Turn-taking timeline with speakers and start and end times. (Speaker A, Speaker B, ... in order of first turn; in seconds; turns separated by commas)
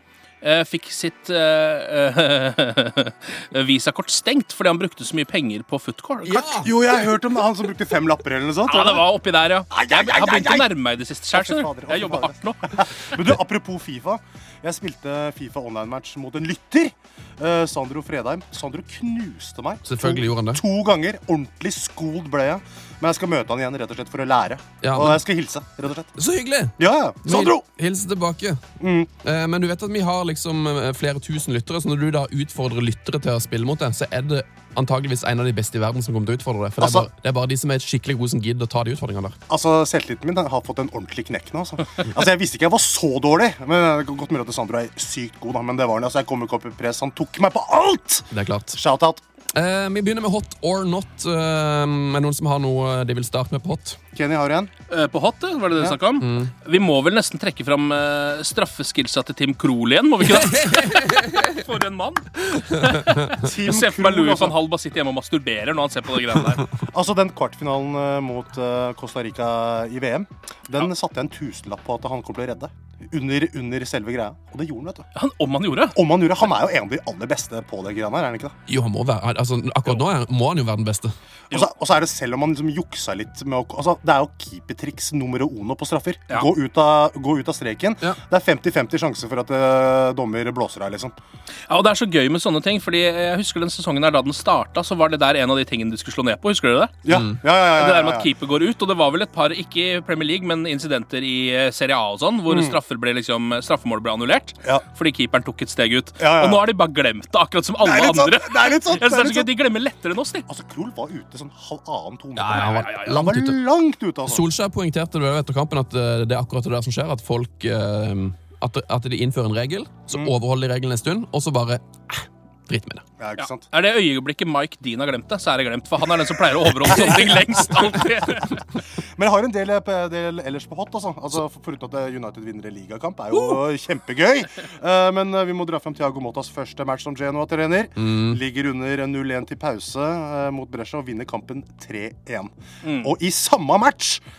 Speaker A: 0.4-6.6, Speaker B: 6.2-6.7, Speaker C: 6.6-9.1, Speaker A: 8.7-13.1, Speaker C: 9.7-10.7, Speaker C: 11.3-26.1, Speaker B: 19.8-20.6, Speaker B: 24.8-25.2, Speaker B: 26.1-28.6, Speaker C: 26.8-27.6, Speaker C: 28.8-29.1, Speaker B: 29.2-39.4, Speaker C: 36.8-37.1, Speaker C: 39.5-49.2, Speaker B: 48.3-48.8, Speaker B: 49.5-54.0, Speaker C: 54.1-54.7, Speaker A: 54.9-66.7, Speaker B: 56.2-56.5, Speaker B: 60.3-61.6, Speaker C: 63.4-64.5, Speaker C: 66.8-75.1, Speaker A: 75.2-76.0, Speaker C: 75.9-78.5, Speaker B: 78.7-81.1, Speaker C: 81.5-91.1, Speaker A: 91.7-97.0, Speaker C: 97.0-98.3, Speaker B: 97.1-97.4, Speaker A: 97.6-110.5, Speaker C: 102.5-102.8, Speaker C: 106.2-106.7, Speaker C: 107.8-109.5, Speaker C: 110.5-114.5, Speaker B: 112.3-113.6, Speaker A: 112.5-113.2, Speaker B: 114.2-123.0, Speaker C: 123.2-123.7, Speaker A: 123.4-128.6, Speaker B: 126.8-127.8, Speaker C: 129.1-144.2, Speaker A: 133.3-133.6, Speaker B: 138.0-138.4, Speaker A: 142.8-143.1